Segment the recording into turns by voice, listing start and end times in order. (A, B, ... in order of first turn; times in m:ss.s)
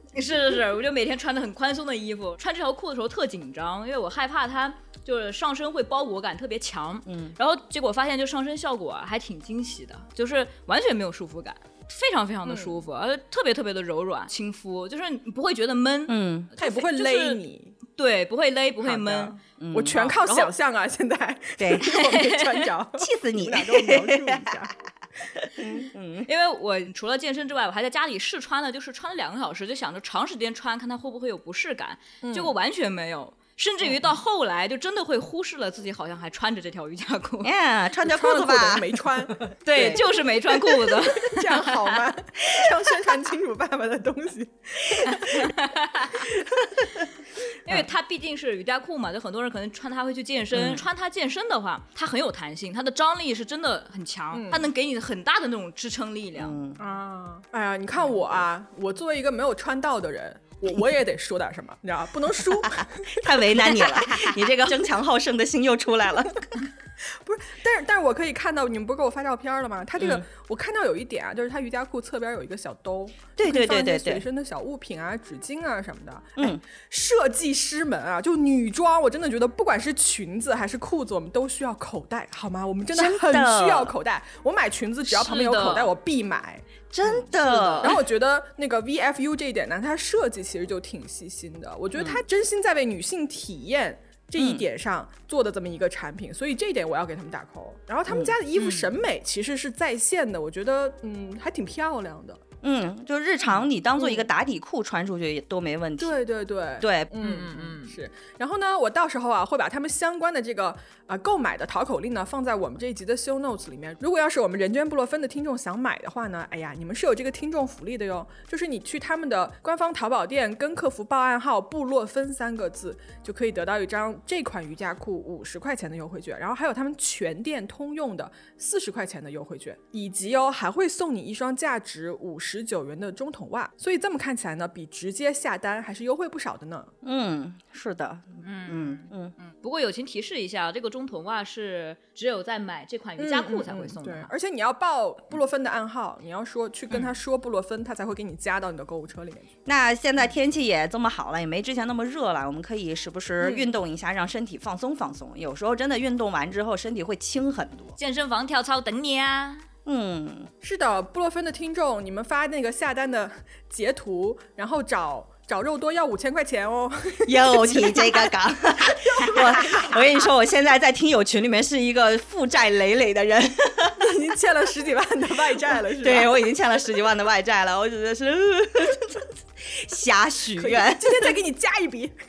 0:00.1-0:17.4 A
0:07.1-0:07.4 B
0:12.5-0:12.8 C
0:16.1-0:16.5 B
0:16.6-0:17.8 C
0:18.0-0:19.4 A
0:18.8-0:24.7 C
0:19.6-0:20.5 B
0:21.6-0:21.9 B
0:21.9-0:22.4 A
0:23.0-0:24.5 B
0:25.4-0:26.3 B
0:26.3-0:37.5 A
0:32.2-0:32.5 C
0:37.4-0:40.3 B
0:38.0-0:39.5 C
0:39.7-0:42.0 A
0:41.0-0:45.6 C
0:45.2-0:46.2 A
0:47.6-0:56.6 A
0:50.5-0:50.8 B
0:54.3-0:54.7 C
0:56.4-0:56.8 B
0:56.8-1:04.3 C
1:03.1-1:06.4 B
1:07.2-1:26.6 C
1:10.0-1:10.2 B
1:13.4-1:14.2 B
1:16.4-1:16.6 B
1:22.9-1:23.9 B
1:25.1-1:25.9 A
1:26.9-1:28.0 B
1:27.3-1:28.0 A
1:27.8-1:42.4 C
1:32.0-1:32.2 B
1:34.4-1:34.6 B
1:38.1-1:38.4 B
1:38.6-1:38.9 A
1:42.6-1:46.2 B
1:46.0-2:16.9 C
1:46.8-1:47.1 B
1:47.2-1:47.9 A
2:17.0-2:19.3 B
2:18.4-2:24.3 A
2:23.2-2:29.5 C
2:29.7-2:38.0 B
2:33.4-2:33.7 C
2:38.0-2:39.6 A
2:39.9-2:40.5 B
2:40.6-2:48.3 C
2:47.2-2:54.1 B
2:48.8-2:50.1 C
2:54.0-2:56.4 C
2:55.9-3:01.3 B
3:00.6-3:02.2 C